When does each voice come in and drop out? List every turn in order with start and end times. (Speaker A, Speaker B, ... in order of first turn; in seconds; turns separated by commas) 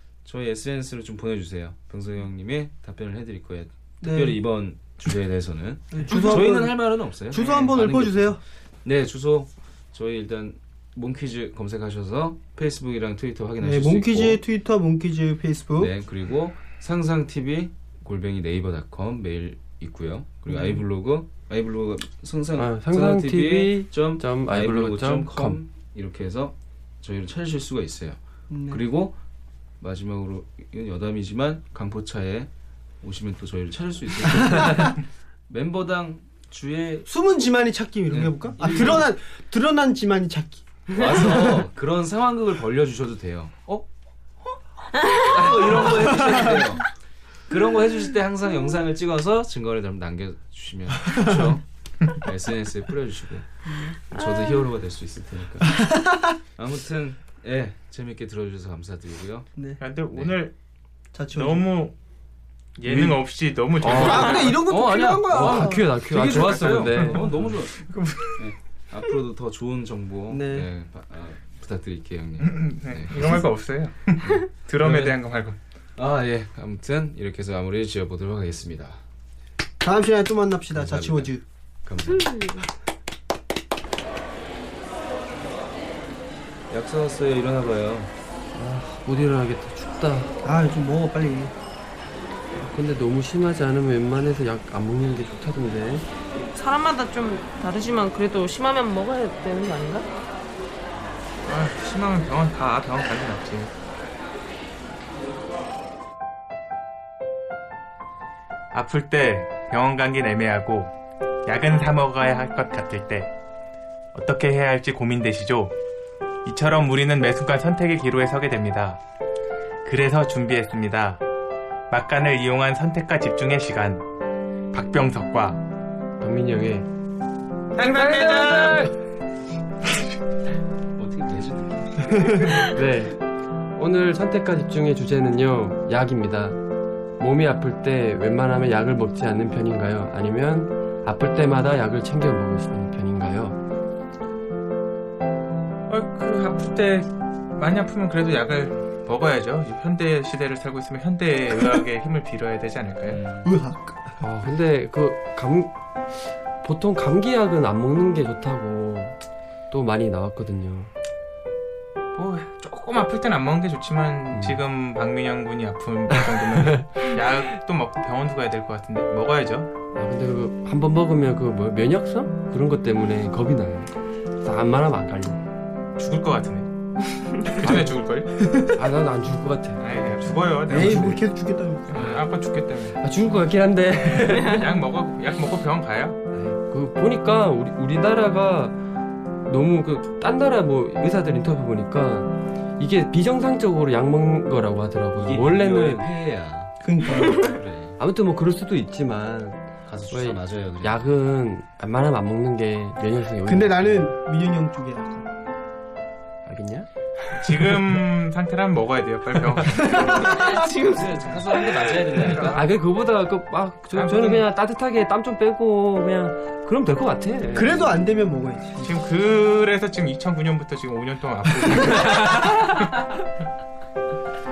Speaker A: 0.2-14.4, Speaker B: 4.0-4.4, Speaker B: 5.9-8.4, Speaker B: 13.6-15.9, Speaker A: 15.8-29.1, Speaker B: 20.5-20.8, Speaker C: 22.6-25.6, Speaker B: 28.5-28.8, Speaker A: 29.8-32.5, Speaker A: 33.0-37.1, Speaker B: 34.4-34.8, Speaker B: 37.1-41.6, Speaker A: 38.1-39.1, Speaker A: 40.9-43.9, Speaker D: 45.0-45.3, Speaker A: 45.2-46.9, Speaker B: 45.9-46.5, Speaker A: 47.5-53.5, Speaker B: 53.6-54.0, Speaker A: 54.1-55.9, Speaker D: 54.1-54.6, Speaker B: 55.6-56.4, Speaker A: 56.6-59.5, Speaker E: 59.8-60.5, Speaker A: 60.1-60.4, Speaker B: 61.1-61.7, Speaker E: 61.3-61.9, Speaker E: 62.8-64.6, Speaker B: 62.9-63.2, Speaker C: 63.8-64.5, Speaker B: 63.8-65.9, Speaker A: 64.6-73.4, Speaker C: 65.3-67.3, Speaker E: 66.7-68.5, Speaker B: 70.3-70.7, Speaker E: 72.4-75.6, Speaker A: 74.2-75.2, Speaker A: 76.0-79.0, Speaker B: 79.8-81.4, Speaker A: 80.7-81.3, Speaker A: 81.8-82.6, Speaker D: 82.2-82.6, Speaker A: 86.7-88.1, Speaker C: 88.5-90.3, Speaker B: 90.4-91.5, Speaker C: 92.5-96.0, Speaker D: 96.5-100.1, Speaker E: 101.5-103.7, Speaker E: 108.7-110.9, Speaker E: 111.5-113.3, Speaker E: 114.1-115.8, Speaker E: 116.5-119.0, Speaker E: 119.8-121.2, Speaker E: 121.9-124.0, Speaker E: 124.7-125.6, Speaker C: 126.2-126.9, Speaker E: 127.8-128.9, Speaker C: 127.8-128.9, Speaker A: 131.0-132.4, Speaker C: 132.7-133.2, Speaker C: 133.8-136.6, Speaker C: 137.2-143.6, Speaker E: 145.9-153.2, Speaker A: 153.1-153.5, Speaker B: 153.4-154.2, Speaker C: 154.2-155.7, Speaker C: 156.6-159.2, Speaker C: 159.7-160.9, Speaker E: 162.2-169.7, Speaker C: 164.3-164.6, Speaker C: 169.9-175.4, Speaker E: 176.0-176.7, Speaker E: 177.4-178.3, Speaker C: 177.6-177.9, Speaker B: 178.4-178.7, Speaker C: 178.7-179.8, Speaker E: 179.8-181.2, Speaker C: 180.7-181.2, Speaker B: 180.7-182.0, Speaker E: 181.9-183.0, Speaker A: 181.9-182.2, Speaker C: 183.0-184.6, Speaker E: 184.3-186.2, Speaker C: 186.7-188.8, Speaker C: 189.4-196.1, Speaker A: 195.2-196.8, Speaker B: 196.8-197.6, Speaker A: 197.3-198.0, Speaker C: 198.0-204.1, Speaker A: 199.9-201.1, Speaker B: 203.4-205.3, Speaker C: 206.5-206.9, Speaker E: 207.3-210.3, Speaker B: 209.9-210.6, Speaker D: 210.1-211.9, Speaker A: 210.9-212.6, Speaker E: 212.2-212.6, Speaker C: 212.4-217.9, Speaker E: 213.9-214.4, Speaker B: 217.5-218.9, Speaker E: 218.8-222.9, Speaker C: 222.1-222.6